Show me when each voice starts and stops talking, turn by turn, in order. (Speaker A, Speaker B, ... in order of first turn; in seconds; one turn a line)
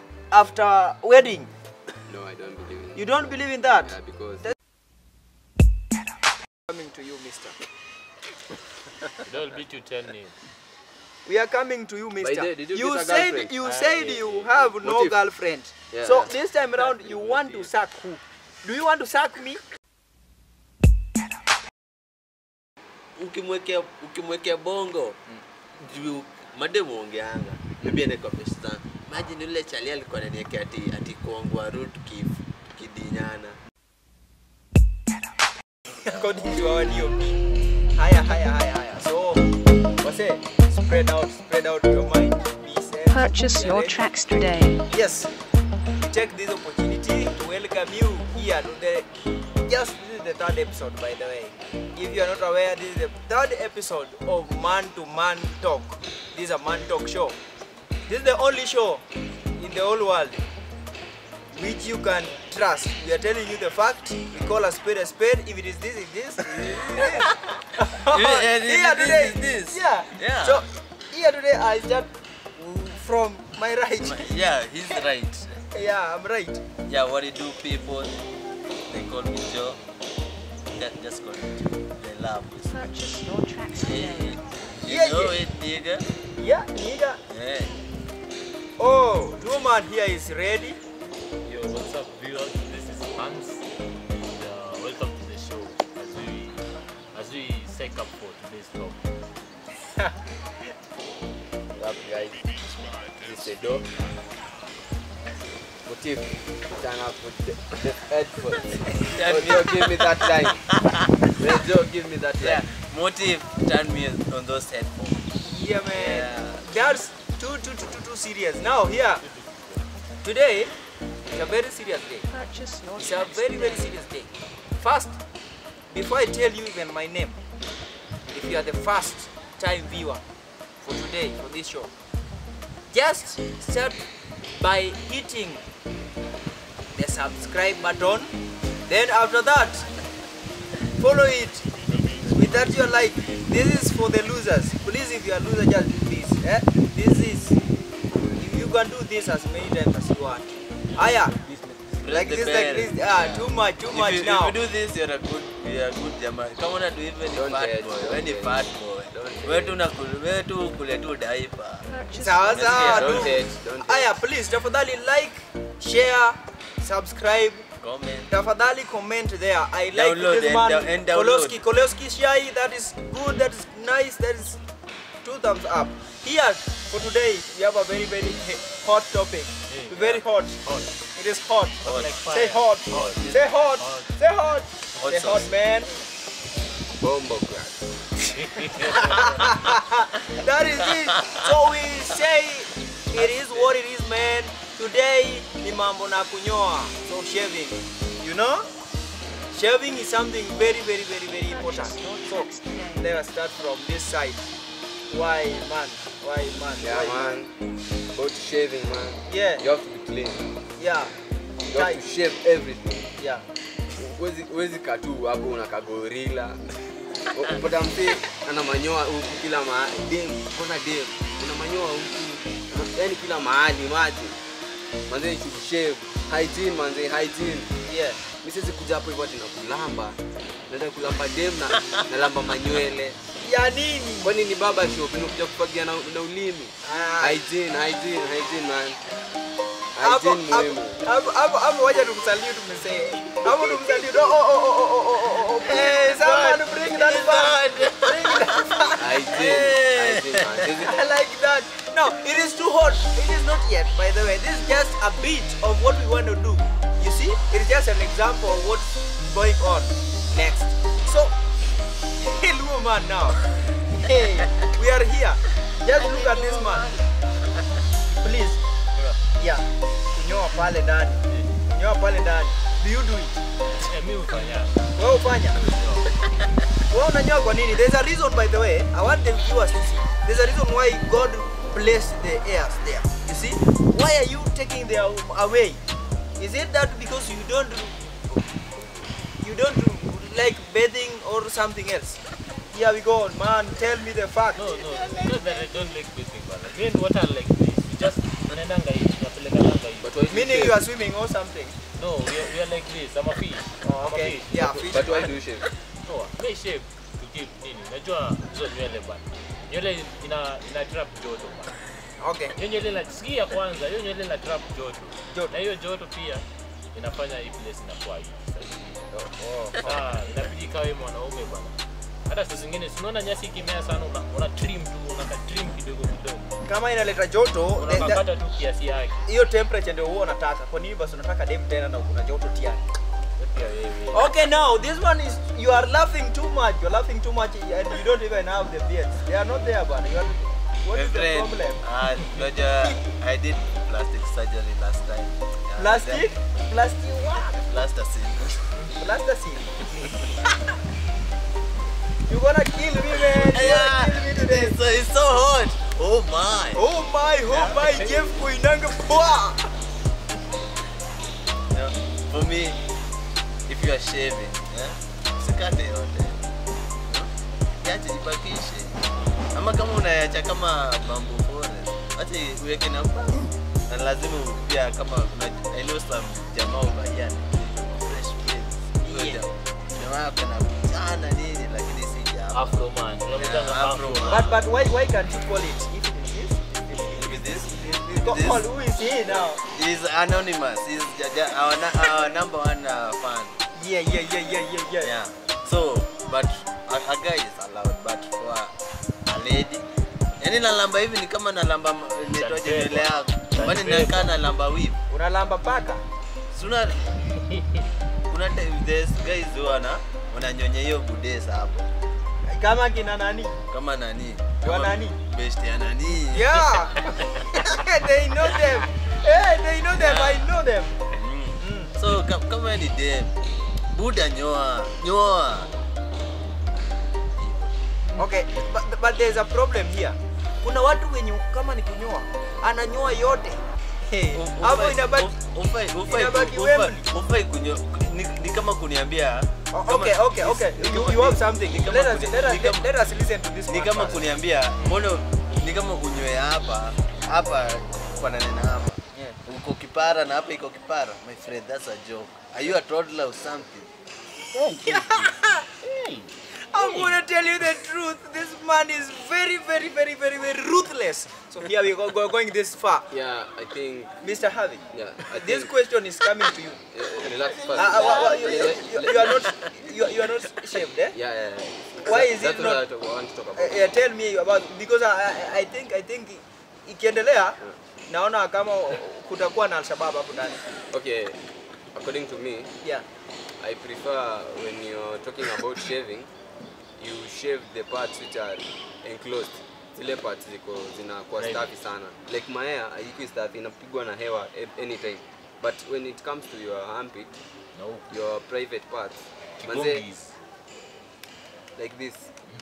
Speaker A: 0.3-1.5
Speaker B: 2.1-4.5
Speaker A: 3.0-3.9
Speaker A: 6.7-7.6
Speaker C: 9.2-10.3
Speaker A: 11.3-19.6
Speaker B: 12.2-15.2
Speaker B: 15.9-17.7
Speaker D: 23.2-25.2
Speaker D: 25.8-33.6
Speaker A: 35.9-37.4
Speaker A: 38.0-44.0
Speaker E: 43.1-44.8
Speaker A: 44.9-45.3
Speaker A: 46.0-49.1
Speaker A: 49.7-57.4
Speaker A: 58.1-59.0
Speaker A: 59.6-60.5
Speaker A: 61.5-74.3
Speaker D: 66.5-67.4
Speaker D: 68.0-70.6
Speaker D: 74.0-75.7
Speaker A: 75.7-76.6
Speaker D: 76.9-78.2
Speaker D: 78.9-79.8
Speaker D: 80.7-83.1
Speaker E: 82.7-84.4
Speaker D: 83.7-86.1
Speaker A: 84.9-85.4
Speaker A: 86.4-87.2
Speaker D: 87.3-87.8
Speaker A: 88.8-90.8
Speaker C: 91.4-99.0
Speaker B: 101.8-102.5
Speaker B: 103.1-103.9
Speaker B: 105.8-110.7
Speaker D: 108.9-111.6
Speaker B: 111.4-112.6
Speaker D: 112.4-115.3
Speaker A: 115.5-119.2
Speaker D: 115.9-116.7
Speaker C: 119.2-119.9
Speaker A: 120.2-120.7
Speaker A: 121.3-122.3
Speaker E: 122.3-124.0
Speaker A: 123.0-125.2
Speaker A: 125.9-127.4
Speaker A: 128.3-130.2
Speaker A: 130.8-131.9
Speaker A: 132.9-135.6
Speaker A: 136.9-138.3
Speaker A: 138.9-139.9
Speaker A: 141.0-141.7
Speaker A: 142.3-147.6
Speaker A: 148.3-151.4
Speaker D: 152.0-161.9
Speaker A: 152.1-154.6
Speaker B: 157.3-158.6
Speaker B: 159.1-159.8
Speaker E: 161.9-163.3
Speaker A: 162.2-167.7
Speaker D: 162.5-163.4
Speaker B: 162.7-164.1
Speaker D: 167.8-168.3
Speaker A: 168.3-174.6
Speaker D: 169.9-171.6
Speaker A: 175.2-180.6
Speaker C: 179.7-180.9
Speaker A: 181.2-185.9
Speaker D: 181.8-182.1
Speaker C: 181.8-184.1
Speaker D: 183.2-183.5
Speaker D: 185.0-185.5
Speaker B: 187.0-187.9
Speaker C: 188.3-189.5
Speaker A: 189.0-198.7
Speaker B: 193.2-193.7
Speaker A: 199.5-204.5
Speaker E: 201.5-203.2
Speaker A: 205.1-207.4
Speaker B: 206.8-207.5
Speaker B: 208.1-210.4
Speaker A: 209.3-209.6
Speaker A: 210.8-211.2
Speaker B: 211.7-213.1
Speaker A: 211.7-212.0
Speaker A: 213.2-213.4
Speaker B: 213.9-216.7
Speaker B: 217.3-224.4
Speaker B: 225.1-227.7
Speaker A: 227.9-228.2
Speaker B: 228.4-233.2
Speaker A: 233.4-234.3
Speaker B: 234.2-239.0
Speaker A: 236.8-237.4
Speaker B: 239.9-241.0
Speaker A: 240.0-249.1
Speaker D: 245.6-250.9
Speaker B: 249.0-251.0
Speaker A: 250.8-261.4
Speaker A: 262.2-266.9
Speaker D: 265.9-267.0
Speaker A: 268.2-268.6
Speaker A: 269.4-273.4
Speaker C: 271.3-271.6
Speaker C: 273.7-274.9
Speaker A: 275.0-275.6
Speaker C: 275.6-276.1
Speaker A: 276.9-285.8
Speaker A: 286.4-288.6
Speaker A: 289.4-292.2
Speaker A: 292.7-295.6
Speaker C: 294.6-300.7
Speaker B: 300.0-300.9
Speaker A: 300.3-301.8
Speaker C: 302.0-305.3
Speaker A: 303.8-305.4
Speaker B: 304.9-305.7
Speaker C: 306.1-311.7
Speaker A: 312.2-312.6
Speaker C: 312.6-319.0
Speaker B: 319.1-319.8
Speaker C: 319.8-326.5
Speaker A: 326.7-328.2
Speaker C: 327.8-329.2
Speaker A: 329.3-332.8
Speaker C: 333.4-334.3
Speaker A: 334.1-341.8
Speaker D: 340.9-346.3
Speaker A: 345.8-347.6
Speaker D: 347.6-348.8
Speaker A: 349.0-349.9
Speaker A: 352.3-354.8
Speaker D: 353.2-356.8
Speaker A: 356.7-359.7
Speaker D: 357.5-358.0
Speaker D: 361.7-362.8
Speaker D: 363.7-366.5
Speaker D: 367.1-384.6
Speaker A: 379.0-379.4
Speaker C: 382.5-384.5
Speaker A: 384.3-389.6
Speaker D: 387.0-388.7
Speaker D: 389.2-393.6
Speaker A: 393.8-395.1
Speaker D: 395.0-398.7
Speaker D: 399.3-399.8
Speaker D: 400.4-405.0
Speaker C: 402.3-404.3
Speaker A: 405.1-406.0
Speaker D: 406.5-407.1
Speaker C: 407.2-407.9
Speaker D: 408.3-411.9
Speaker A: 412.5-413.6
Speaker D: 413.7-416.6
Speaker A: 414.6-415.1
Speaker A: 416.3-421.0
Speaker D: 419.9-420.5
Speaker D: 421.1-423.4
Speaker A: 421.6-421.9
Speaker D: 423.9-425.7
Speaker D: 427.4-427.8
Speaker A: 428.2-435.3
Speaker D: 434.3-442.9
Speaker A: 436.1-437.0
Speaker A: 439.7-444.3
Speaker D: 443.7-453.9
Speaker C: 454.5-455.1
Speaker A: 454.8-455.7
Speaker C: 455.8-457.2
Speaker A: 456.6-463.1
Speaker B: 463.1-464.2
Speaker A: 464.2-466.8
Speaker B: 464.9-465.7
Speaker B: 466.9-469.4
Speaker A: 467.7-471.1
Speaker D: 469.2-469.7
Speaker B: 471.1-473.8
Speaker A: 472.0-472.8
Speaker A: 473.6-477.6
Speaker A: 478.1-480.6
Speaker B: 480.9-481.4
Speaker B: 481.9-482.7
Speaker B: 483.6-486.3
Speaker B: 487.0-497.3
Speaker C: 491.4-491.7
Speaker C: 497.8-498.1
Speaker B: 498.1-500.1
Speaker C: 499.6-500.3
Speaker B: 501.8-502.3